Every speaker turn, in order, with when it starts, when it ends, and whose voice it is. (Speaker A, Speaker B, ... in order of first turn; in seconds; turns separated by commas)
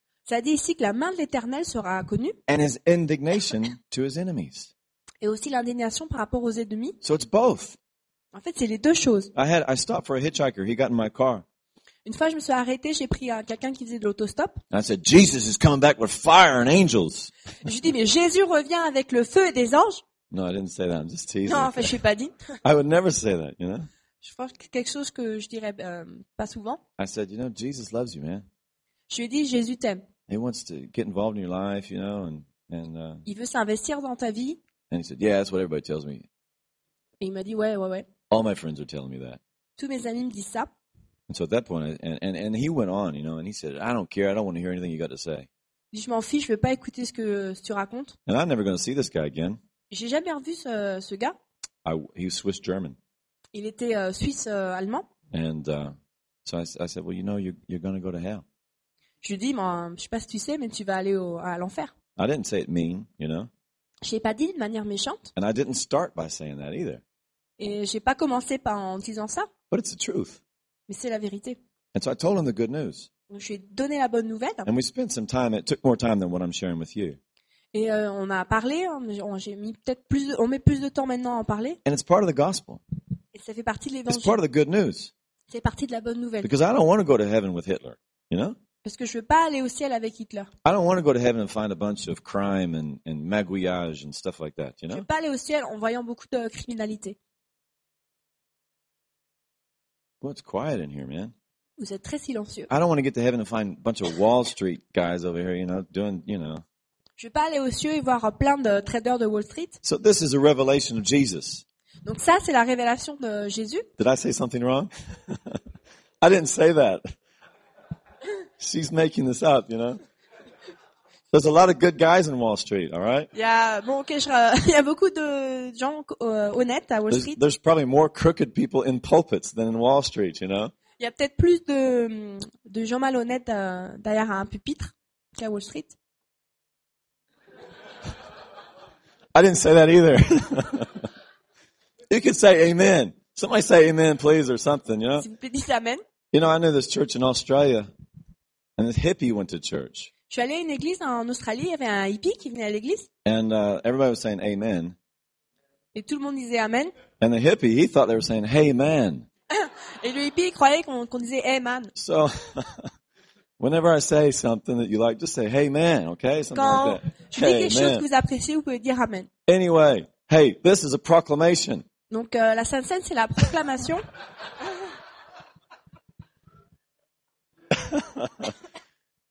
Speaker A: 0.3-2.4, Speaker B: 2.5-4.7, Speaker A: 5.2-7.0, Speaker B: 7.0-7.8, Speaker A: 8.3-9.3, Speaker B: 9.3-11.4, Speaker A: 12.1-14.6, Speaker B: 14.7-17.3, Speaker A: 17.6-20.0, Speaker B: 20.3-22.0, Speaker A: 21.5-22.4, Speaker B: 22.6-23.9, Speaker A: 24.2-26.8, Speaker B: 27.0-28.4, Speaker A: 29.1-30.1, Speaker B: 30.3-33.2, Speaker A: 33.3-34.6, Speaker B: 34.9-36.3, Speaker A: 37.2-38.1, Speaker B: 38.3-39.4, Speaker A: 39.8-40.7, Speaker B: 41.3-45.5, Speaker A: 45.9-48.2, Speaker B: 48.3-49.6, Speaker A: 49.9-51.4, Speaker B: 51.9-53.0, Speaker A: 53.5-55.1, Speaker B: 55.3-58.4, Speaker A: 59.2-61.9, Speaker B: 62.2-63.5, Speaker A: 64.0-65.3, Speaker B: 65.4-67.0, Speaker A: 67.6-69.5, Speaker B: 69.7-70.4, Speaker A: 70.9-71.6, Speaker B: 71.9-73.1, Speaker A: 73.3-74.7, Speaker B: 74.7-77.2, Speaker A: 77.7-81.8, Speaker B: 81.8-82.8, Speaker A: 83.3-84.4, Speaker B: 84.1-85.1, Speaker A: 85.5-86.5, Speaker B: 86.4-88.6, Speaker A: 88.8-90.5, Speaker B: 90.7-95.1, Speaker A: 94.9-97.2, Speaker B: 100.2-101.3, Speaker A: 101.8-102.7, Speaker B: 102.7-106.6, Speaker A: 107.2-109.8, Speaker B: 109.8-111.6, Speaker A: 112.0-113.9, Speaker B: 114.0-115.6, Speaker B: 116.2-117.0, Speaker B: 118.6-120.0, Speaker B: 121.3-123.3, Speaker A: 123.3-127.4, Speaker B: 127.1-130.7, Speaker A: 131.0-135.9, Speaker B: 139.3-141.1, Speaker B: 142.1-145.3, Speaker A: 145.2-146.0, Speaker B: 146.3-147.9, Speaker B: 148.8-150.1, Speaker A: 150.3-153.1, Speaker B: 153.2-155.0, Speaker A: 155.9-156.9, Speaker B: 157.2-159.3, Speaker A: 159.5-161.9, Speaker B: 161.9-162.9, Speaker B: 163.6-168.1, Speaker A: 166.5-169.3, Speaker B: 169.5-171.9, Speaker A: 172.1-174.0, Speaker B: 177.7-178.5